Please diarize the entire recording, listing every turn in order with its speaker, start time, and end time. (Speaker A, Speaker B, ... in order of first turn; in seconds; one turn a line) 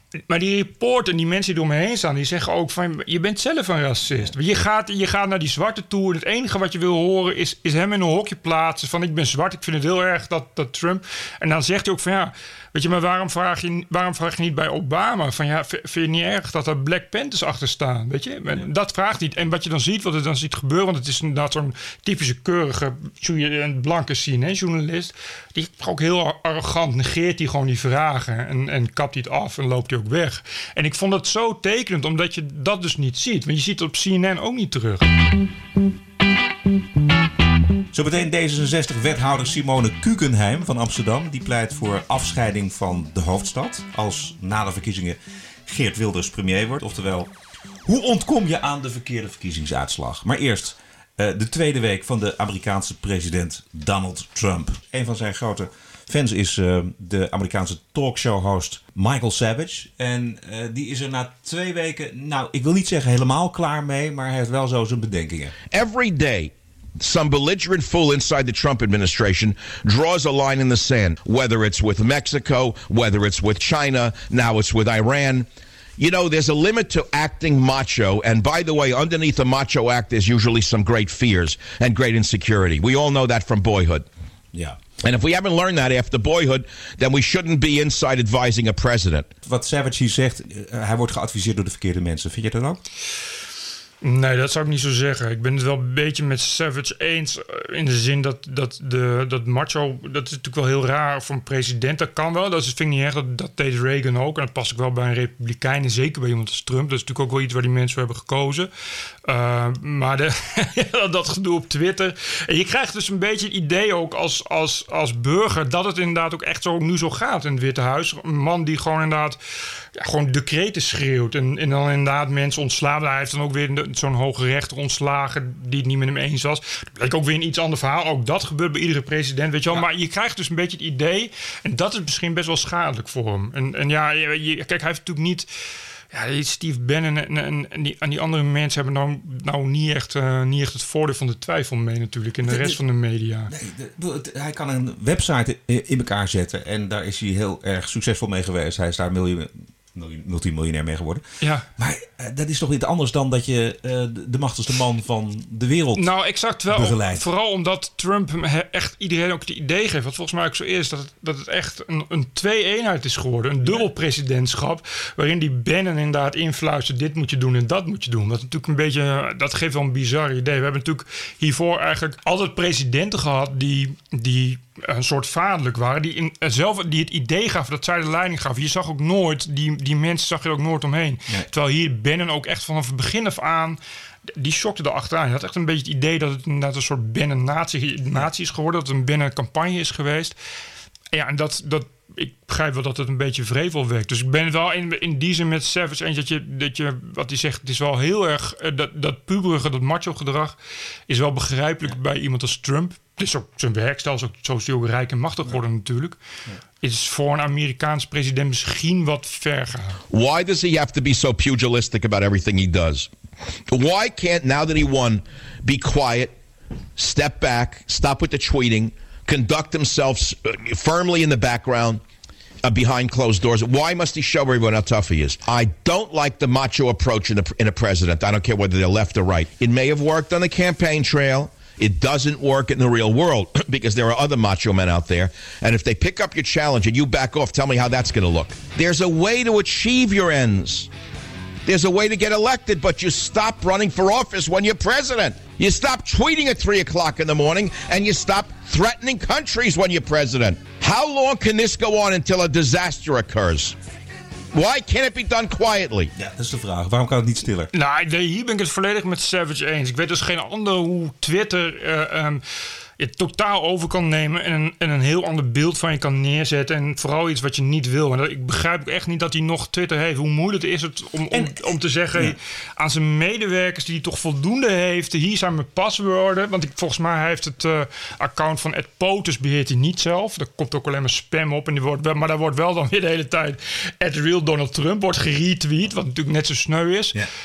Speaker A: 0.3-35.1
Speaker B: 37.9-47.3
Speaker B: 47.9-65.5
Speaker C: 65.7-84.1
Speaker B: 84.5-84.8
Speaker C: 85.0-89.3
Speaker B: 89.4-92.8
Speaker A: 94.0-108.7
Speaker A: 109.3-119.4
Speaker A: 120.0-135.5
Speaker A: 136.1-143.5
Speaker B: 142.4-142.8
Speaker B: 143.5-151.2
Speaker A: 151.4-151.7
Speaker B: 151.8-156.1
Speaker A: 156.0-190.4
Speaker B: 156.7-157.2
Speaker A: 191.1-200.6
Speaker A: 201.1-206.2
Speaker A: 206.8-210.0
Speaker C: 210.1-213.1
Speaker C: 213.7-216.3
Speaker C: 217.0-222.0
Speaker C: 222.6-240.9
Speaker C: 241.7-253.8
Speaker C: 254.5-256.1
Speaker B: 256.2-257.7
Speaker A: 257.7-262.4
Speaker A: 263.0-287.2
Speaker B: 271.3-272.4